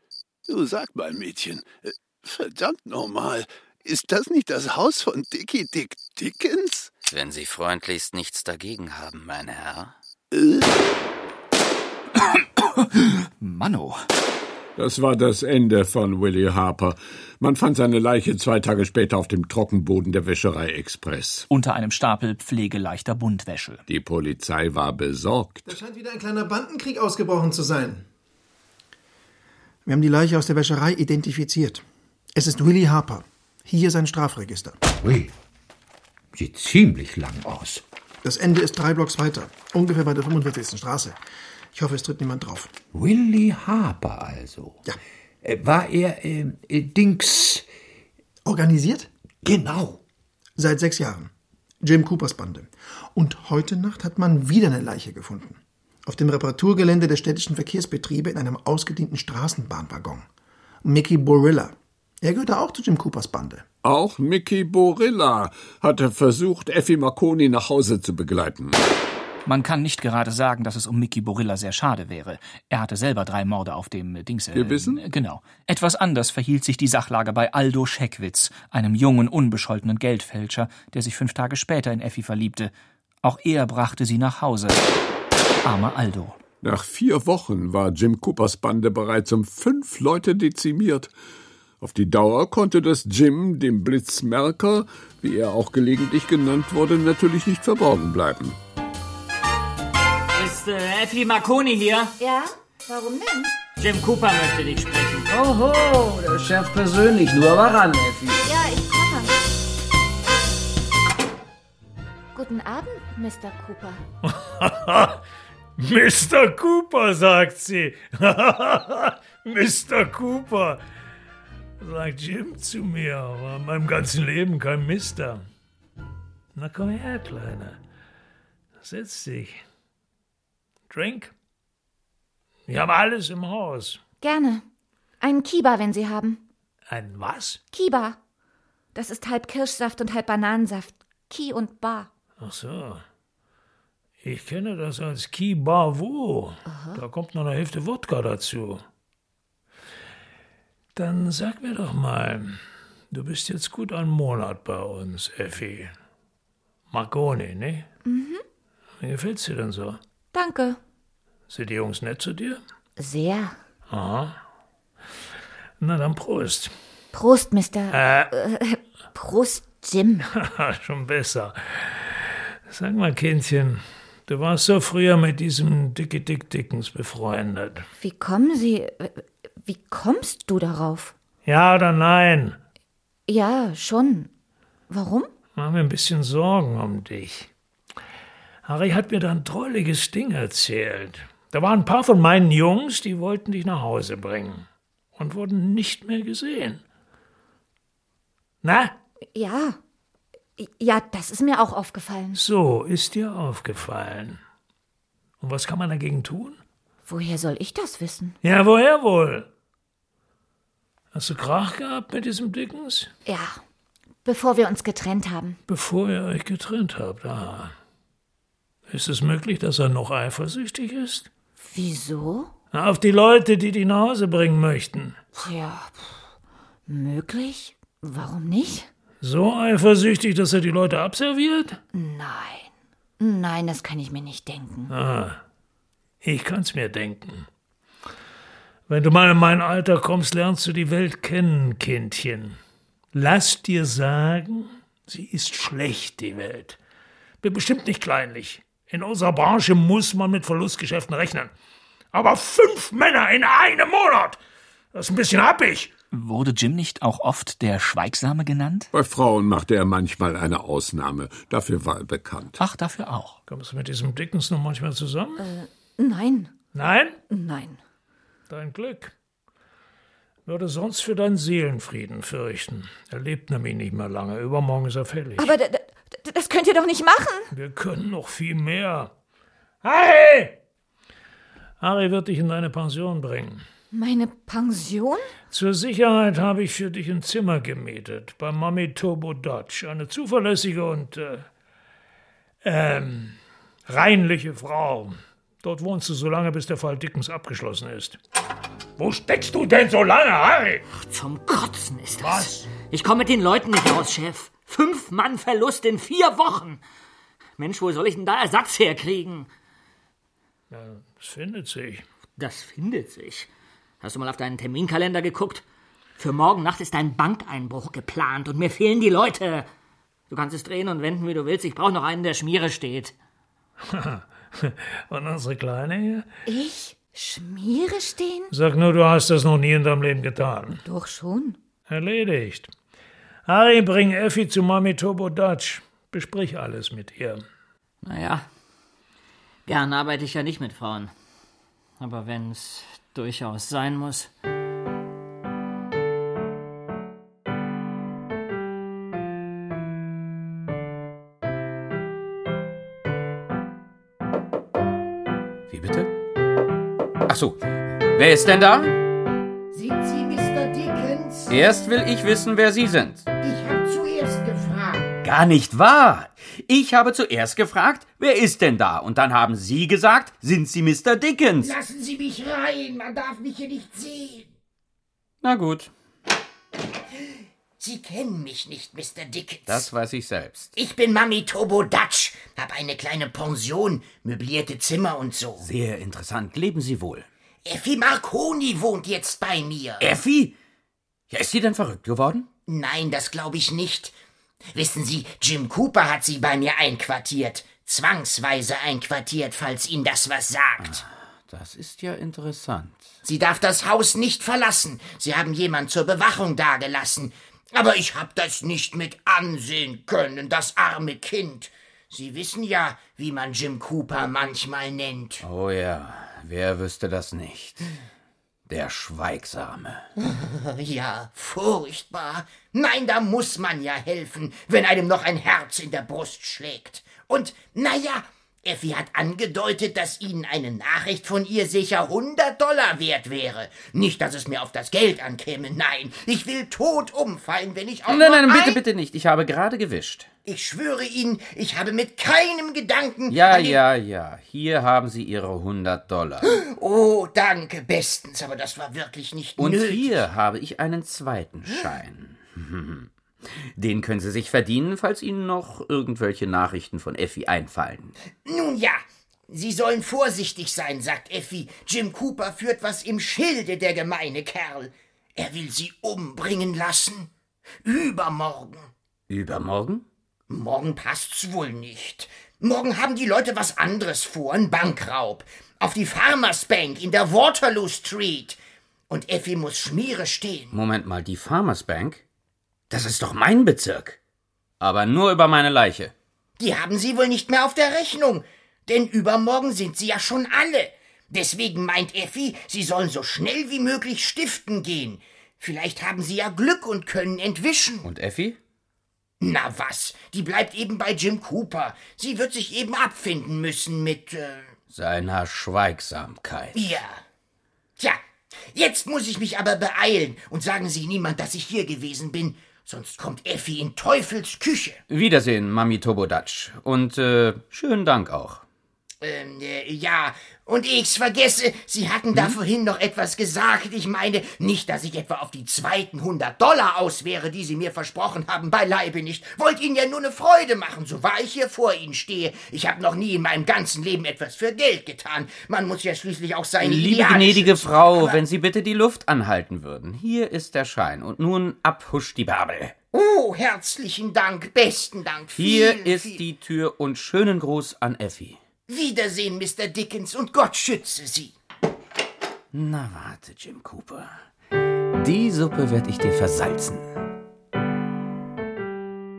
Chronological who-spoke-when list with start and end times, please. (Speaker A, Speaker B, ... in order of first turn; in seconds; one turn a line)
Speaker A: 0.5-7.0
Speaker B: 7.0-9.9
Speaker A: 10.3-10.7
Speaker C: 12.3-14.0
Speaker D: 14.8-21.5
Speaker C: 21.5-23.8
Speaker D: 23.9-25.7
Speaker E: 25.6-28.0
Speaker E: 29.8-31.8
Speaker E: 32.3-34.8
Speaker F: 35.0-35.3
Speaker F: 36.3-37.8
Speaker E: 38.2-41.2
Speaker E: 41.7-42.7
Speaker F: 42.9-44.8
Speaker F: 45.4-47.6
Speaker E: 48.4-49.1
Speaker F: 49.4-50.0
Speaker E: 50.6-51.3
Speaker E: 51.8-60.3
Speaker E: 60.8-63.6
Speaker D: 63.8-68.8
Speaker C: 69.5-84.8
Speaker D: 74.5-75.0
Speaker C: 85.6-86.4
Speaker D: 86.6-91.1
Speaker D: 91.8-98.6
Speaker G: 100.3-102.2
Speaker H: 102.2-103.5
Speaker G: 103.8-105.3
Speaker I: 105.3-108.5
Speaker H: 108.4-109.3
Speaker H: 112.3-114.0
Speaker J: 114.2-115.2
Speaker J: 115.8-120.8
Speaker J: 121.8-125.4
Speaker J: 126.5-127.8
Speaker J: 128.8-129.6
Speaker J: 130.9-131.3
Speaker J: 132.7-134.0
Speaker H: 134.2-134.6
Speaker H: 135.2-136.4
Speaker J: 136.9-137.6
Speaker H: 137.7-138.2
Speaker H: 138.9-142.1
Speaker J: 142.4-143.0
Speaker J: 144.2-148.8
Speaker H: 146.7-147.0
Speaker J: 150.9-152.6
Speaker J: 153.1-155.9
Speaker J: 156.9-157.8
Speaker H: 158.1-158.4
Speaker J: 159.0-160.0
Speaker H: 160.3-160.8
Speaker J: 161.5-162.6
Speaker H: 163.0-163.6
Speaker J: 163.9-164.3
Speaker J: 165.8-166.7
Speaker H: 167.1-170.3
Speaker J: 167.9-168.3
Speaker J: 170.3-172.1
Speaker J: 172.7-177.8
Speaker H: 178.0-181.1
Speaker J: 181.4-182.6
Speaker H: 183.3-184.3
Speaker H: 184.9-185.3
Speaker J: 185.6-187.5
Speaker J: 188.6-196.8
Speaker J: 198.6-198.9
Speaker H: 199.3-199.8
Speaker H: 200.6-202.4
Speaker J: 202.3-204.4
Speaker J: 205.4-206.6
Speaker H: 207.1-208.4
Speaker J: 208.4-209.5
Speaker J: 211.1-213.1
Speaker H: 213.2-213.6
Speaker H: 214.2-215.6
Speaker J: 215.7-217.7
Speaker J: 218.9-221.3
Speaker H: 221.6-222.5
Speaker J: 222.7-225.2
Speaker H: 225.4-226.1
Speaker H: 226.9-228.9
Speaker J: 229.2-231.8
Speaker H: 231.9-234.9
Speaker J: 234.9-235.4
Speaker J: 236.2-237.5
Speaker J: 238.9-242.6
Speaker J: 243.1-246.8
Speaker J: 247.4-251.5
Speaker J: 252.1-254.4
Speaker J: 254.9-255.9
Speaker C: 256.1-258.9
Speaker D: 258.9-262.6
Speaker C: 262.6-263.4
Speaker J: 263.5-265.4
Speaker H: 265.4-266.5
Speaker J: 266.7-267.2
Speaker H: 267.3-267.8
Speaker J: 268.5-269.1
Speaker J: 270.4-275.5
Speaker H: 275.4-277.5
Speaker J: 277.5-279.1
Speaker J: 279.8-280.6
Speaker J: 281.8-283.6
Speaker H: 283.9-285.3
Speaker J: 285.5-291.4
Speaker J: 292.6-293.4
Speaker J: 293.9-298.2
Speaker J: 299.0-300.8
Speaker G: 300.9-306.8
Speaker J: 302.2-302.6
Speaker G: 307.6-309.5
Speaker J: 310.7-312.0
Speaker G: 312.4-313.5
Speaker G: 314.0-315.6
Speaker G: 316.2-319.6
Speaker G: 320.3-323.1
Speaker J: 323.8-326.2
Speaker H: 326.5-328.5
Speaker J: 328.5-330.8
Speaker H: 330.8-331.6
Speaker J: 331.9-332.7
Speaker J: 333.4-337.4
Speaker G: 338.0-338.4
Speaker G: 339.7-341.1
Speaker G: 342.0-344.3
Speaker B: 355.7-356.1
Speaker B: 357.3-358.9
Speaker K: 359.7-361.6
Speaker B: 361.5-363.2
Speaker K: 363.4-365.1
Speaker B: 365.2-371.7
Speaker K: 371.6-374.5
Speaker B: 375.4-375.9
Speaker K: 377.8-379.9
Speaker B: 379.7-380.7
Speaker K: 380.7-385.6
Speaker B: 385.6-387.3
Speaker K: 387.6-390.1
Speaker B: 390.0-390.5
Speaker B: 391.3-392.5
Speaker K: 392.7-394.1
Speaker K: 394.7-401.0
Speaker B: 400.8-403.1
Speaker K: 403.2-415.4
Speaker B: 415.4-417.9
Speaker B: 418.7-420.0
Speaker K: 420.2-438.8
Speaker B: 438.0-440.3
Speaker K: 440.4-443.8
Speaker B: 443.3-446.6
Speaker K: 446.5-450.3
Speaker B: 449.6-458.1
Speaker K: 458.4-467.3
Speaker K: 467.8-468.9
Speaker B: 469.3-470.0
Speaker K: 470.5-478.6
Speaker K: 479.1-480.7
Speaker B: 480.7-482.2
Speaker B: 482.9-484.2
Speaker B: 484.8-486.1
Speaker K: 486.6-498.1
Speaker B: 498.0-498.6
Speaker K: 499.4-504.7
Speaker B: 504.9-506.8
Speaker K: 506.7-507.2
Speaker K: 508.7-515.0
Speaker B: 515.1-518.6
Speaker K: 519.2-538.4
Speaker B: 522.3-522.6
Speaker B: 536.8-542.9
Speaker K: 543.1-546.4
Speaker B: 545.5-548.6
Speaker K: 548.9-551.5
Speaker B: 552.7-554.3
Speaker B: 555.2-557.1